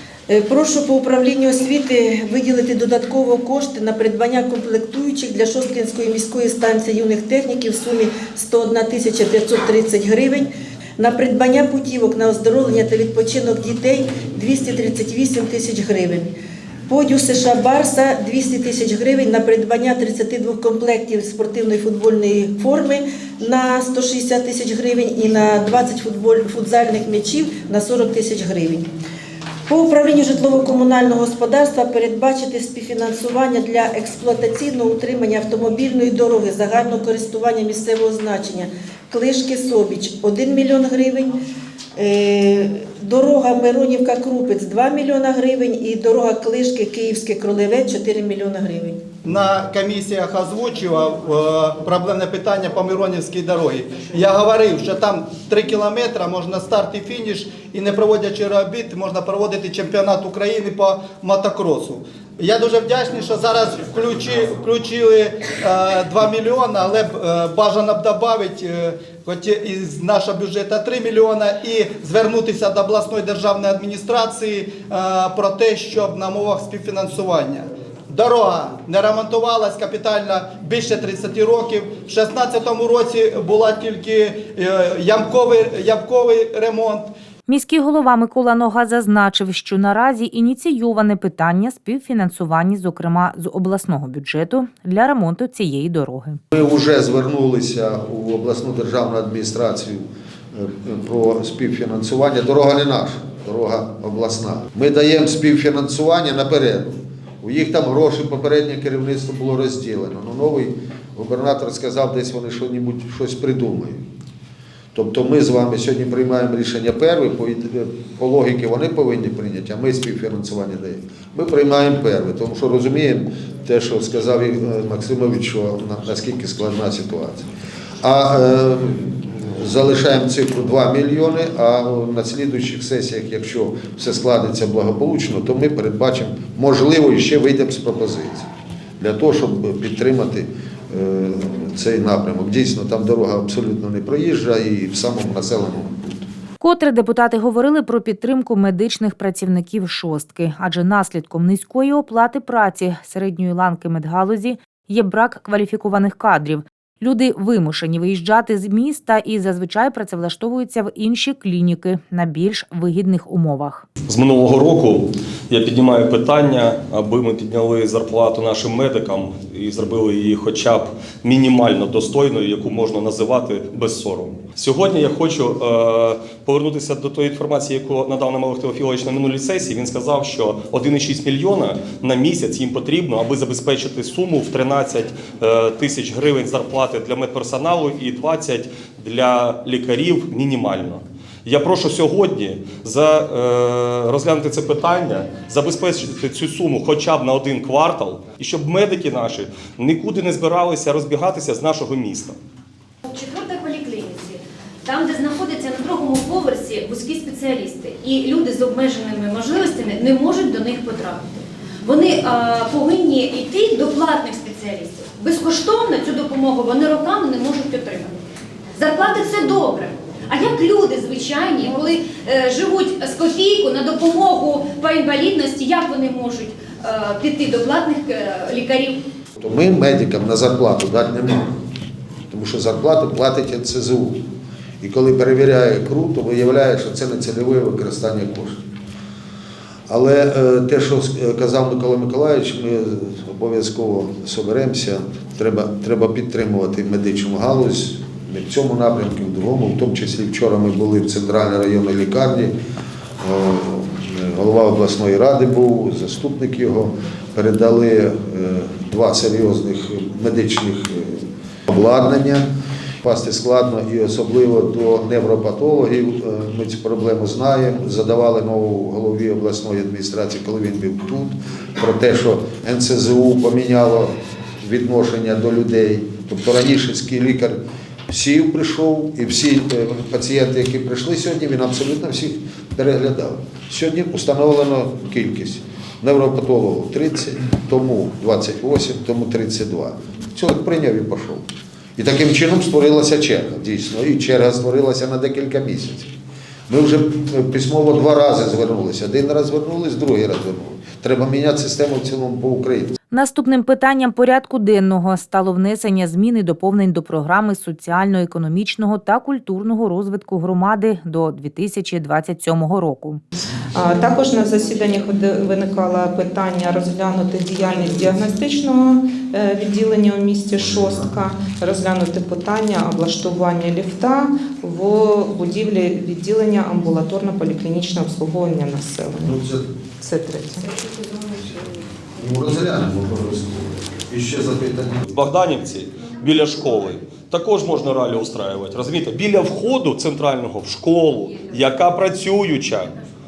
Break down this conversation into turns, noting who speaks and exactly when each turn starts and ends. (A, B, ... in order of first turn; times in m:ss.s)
0:00.3-0:16.3 A
0:16.9-0:28.9 A
0:29.7-0:41.4 A
0:42.0-0:49.0 A
0:49.2-1:27.1 B
1:27.5-1:36.4 C
1:36.5-1:54.0 D
1:54.9-2:07.4 D
2:08.0-2:18.5 D
2:19.0-2:26.2 D
2:26.6-2:43.8 C
2:44.1-3:22.4 E
3:23.0-3:38.2 F
3:38.8-3:49.0 F
3:49.4-3:51.5 D
3:52.3-3:54.2 D
3:54.8-3:58.6 D
3:59.9-4:12.5 D
4:13.2-4:22.5 D
4:23.0-4:51.4 D
4:52.0-4:56.1 D
4:56.7-5:02.9 D
5:03.1-5:13.2 C
5:13.7-5:29.4 G
5:29.2-5:29.6 D
5:30.0-5:30.9 G
5:32.2-5:35.0 D
5:35.1-5:42.9 E